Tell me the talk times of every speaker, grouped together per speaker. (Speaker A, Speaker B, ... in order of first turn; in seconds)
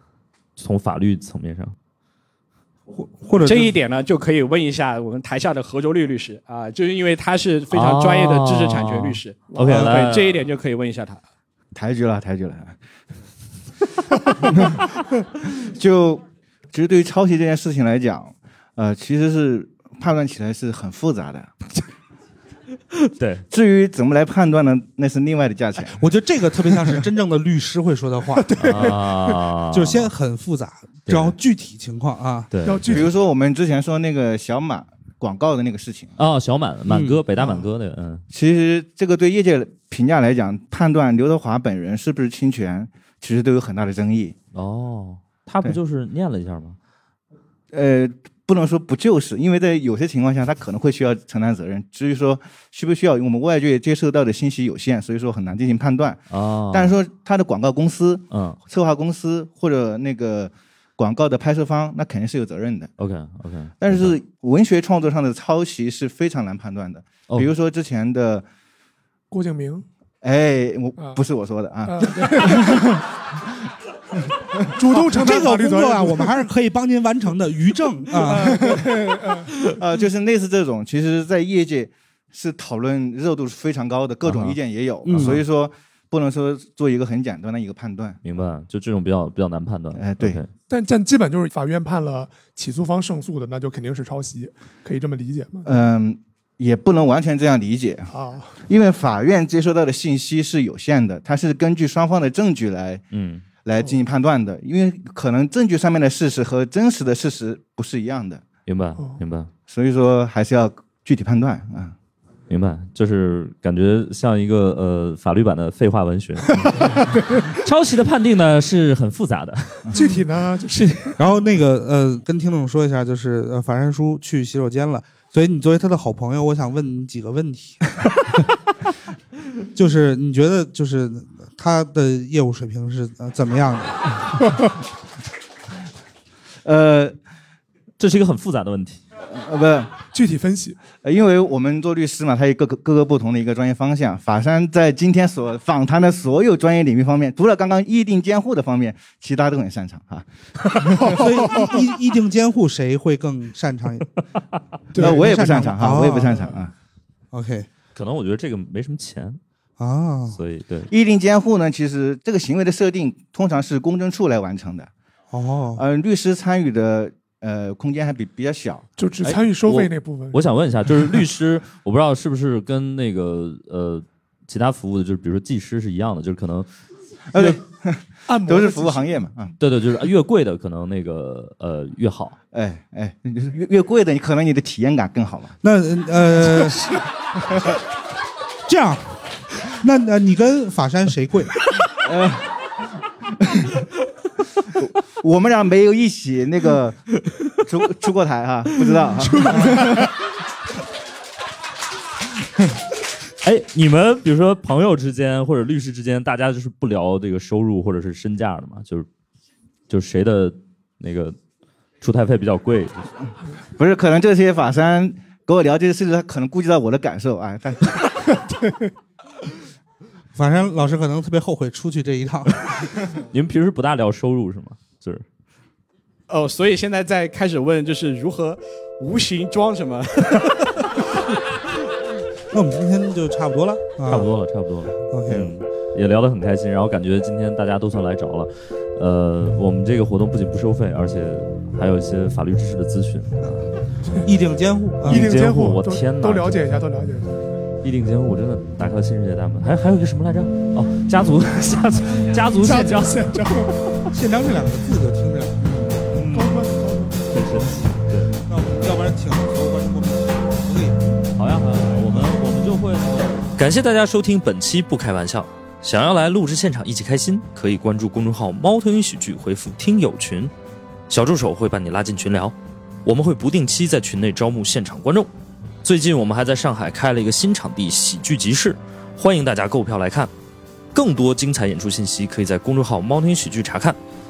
Speaker A: 0.6-1.8, 7.7-10.4, 23.1-23.4, 28.6-30.1, 31.1-31.4, 32.5-33.0, 36.2-38.2, 44.5-46.8, 56.3-57.0, 58.3-58.6, 63.0-64.2, 84.2-84.6, 88.2-90.5, 103.1-103.4, 108.7-109.5, 112.5-120.0, 138.0-139.0, 157.9-159.4, 160.3-160.9, 169.2-176.7, 179.6-182.4, 203.4-209.1, 209.9-211.4, 212.0-213.1, 222.7-225.2, 234.1-243.7, 245.1-246.8, 247.8-253.4, 257.3-258.4, 261.4-263.6
Speaker B: 2.9-3.8, 25.9-29.0, 29.7-32.5, 36.9-37.2, 74.9-78.8, 85.0-85.4, 121.2-127.8, 129.8-134.2, 151.1-154.1, 155.0-156.5, 157.3-157.7, 159.8-160.4, 165.3-165.8, 185.6-186.9, 188.7-191.5, 220.3-222.7, 232.5-234.3, 235.1-235.6, 244.2-245.3, 254.1-256.6, 258.5-261.3
Speaker C: 3.4-11.2, 226.3-231.0
Speaker D: 9.5-9.8, 28.4-29.0, 32.6-33.1, 69.3-69.8, 71.9-73.1, 74.8-76.4, 78.2-79.5, 90.7-95.7, 98.1-98.6, 116.7-117.4, 119.9-121.2, 140.1-140.8, 151.0-151.7, 154.9-155.4, 169.0-170.4, 178.3-179.1, 199.4-200.1, 245.1-247.7, 252.5-254.1, 256.3-257.5
Speaker E: 11.8-12.8, 15.6-21.6, 23.5-26.0, 32.9-36.1, 38.3-44.4, 47.7-62.9, 63.8-68.5, 70.2-72.8, 79.8-88.2, 89.9-90.4, 95.7-98.1, 98.7-103.0, 103.7-108.5, 109.7-111.9, 136.7-137.2, 139.3-140.0, 141.0-151.2, 155.0-156.7, 160.9-164.9, 165.8-168.9, 177.3-179.5, 182.5-185.5, 192.0-192.5, 195.2-197.0, 197.7-199.9, 213.8-218.0
Speaker F: 263.6-270.5, 271.1-275.3, 275.8-280.3, 280.9-284.0